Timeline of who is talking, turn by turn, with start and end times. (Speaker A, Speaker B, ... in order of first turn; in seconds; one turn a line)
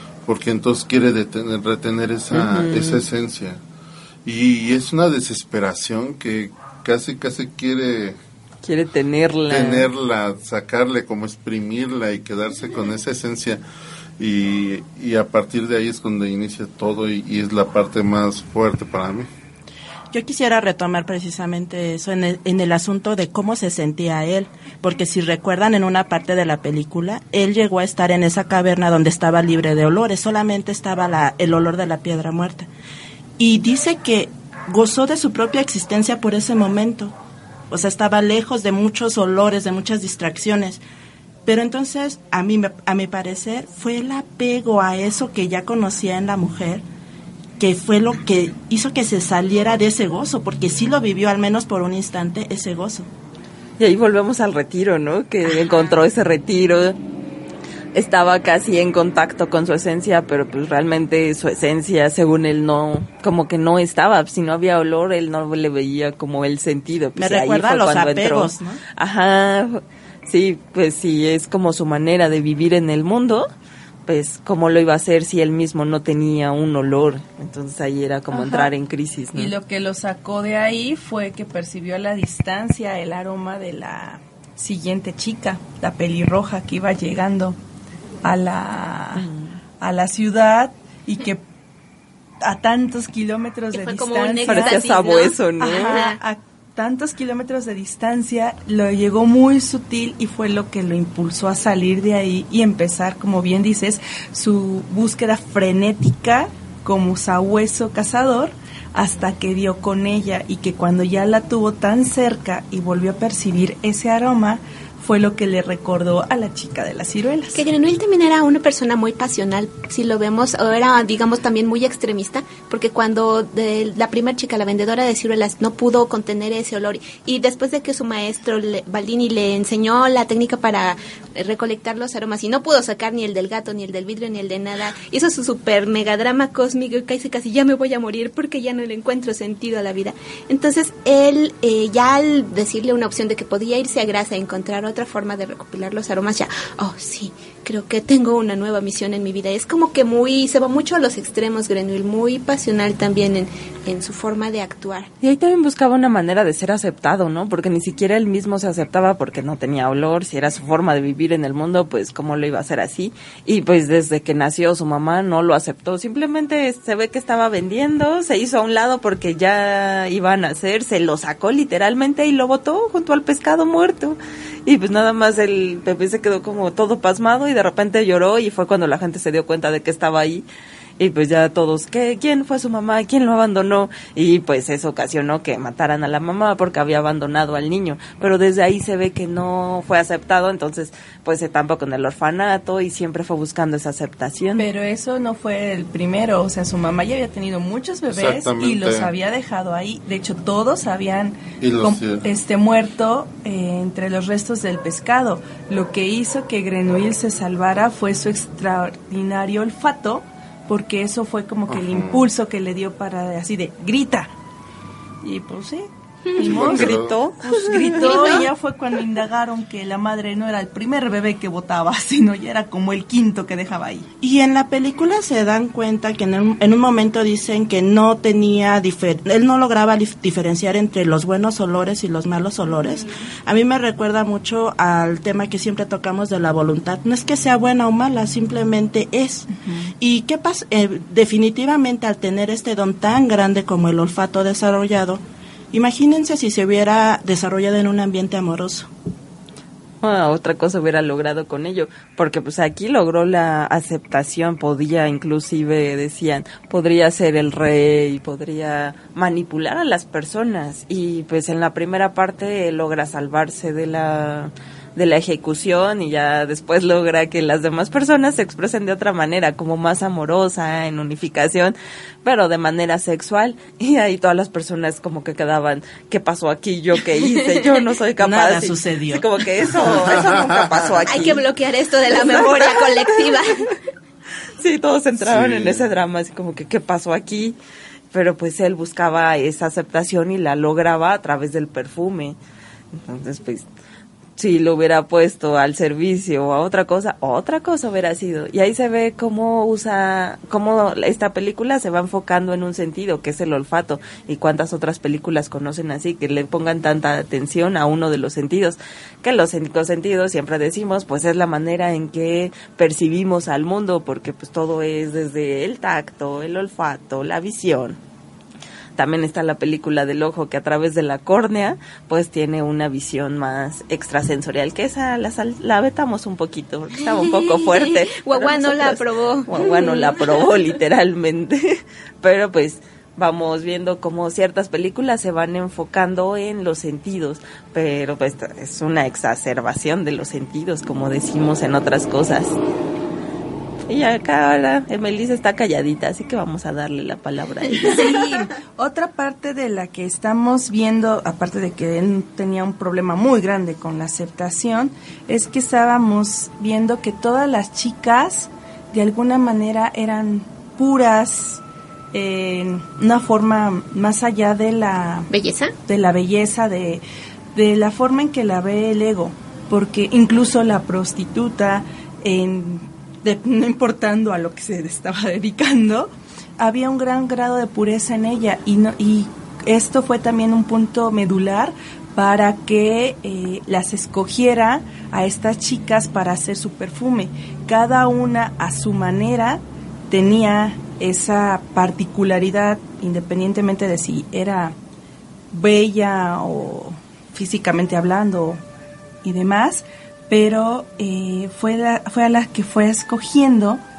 Speaker A: 0.2-3.6
Speaker B: 2.3-3.0
Speaker A: 4.2-8.2
Speaker B: 8.6-9.9
Speaker A: 9.5-13.6
Speaker A: 14.2-19.3
Speaker C: 20.1-32.7
Speaker C: 33.4-37.1
Speaker C: 37.7-40.8
Speaker C: 41.5-46.8
Speaker C: 47.6-53.1
Speaker B: 53.8-57.0
Speaker B: 57.9-73.5
Speaker C: 67.2-68.8
Speaker B: 74.1-79.5
Speaker D: 78.3-78.7
Speaker D: 79.3-87.6
Speaker D: 88.2-89.3
Speaker B: 89.2-89.5
Speaker D: 89.8-91.4
Speaker D: 92.4-94.8
Speaker E: 93.7-96.2
Speaker B: 94.5-96.0
Speaker D: 95.6-117.6
Speaker E: 117.5-155.1
Speaker B: 155.2-180.4
Speaker B: 181.0-194.7
Speaker D: 194.6-214.3
Speaker A: 198.1-199.1
Speaker A: 201.6-202.2
Speaker A: 211.7-212.2
Speaker D: 215.2-224.1
Speaker A: 216.4-217.1
Speaker B: 216.4-218.1
Speaker E: 217.9-218.5
Speaker C: 224.2-248.9
Speaker B: 250.0-281.4
Speaker C: 278.2-279.3
Speaker A: 280.0-281.0
Speaker E: 281.1-283.7
Speaker B: 282.1-283.4
Speaker B: 284.6-287.6
Speaker A: 285.2-285.9
Speaker B: 288.1-292.4
Speaker B: 292.9-293.7
Speaker B: 294.4-318.0
Speaker B: 319.0-342.6
Speaker E: 327.6-330.1
Speaker B: 343.9-348.1
Speaker D: 347.8-361.6
Speaker D: 362.1-365.3
Speaker E: 365.3-365.7
Speaker D: 365.9-367.0
Speaker D: 367.6-394.8
Speaker D: 395.5-398.6
Speaker D: 399.2-403.8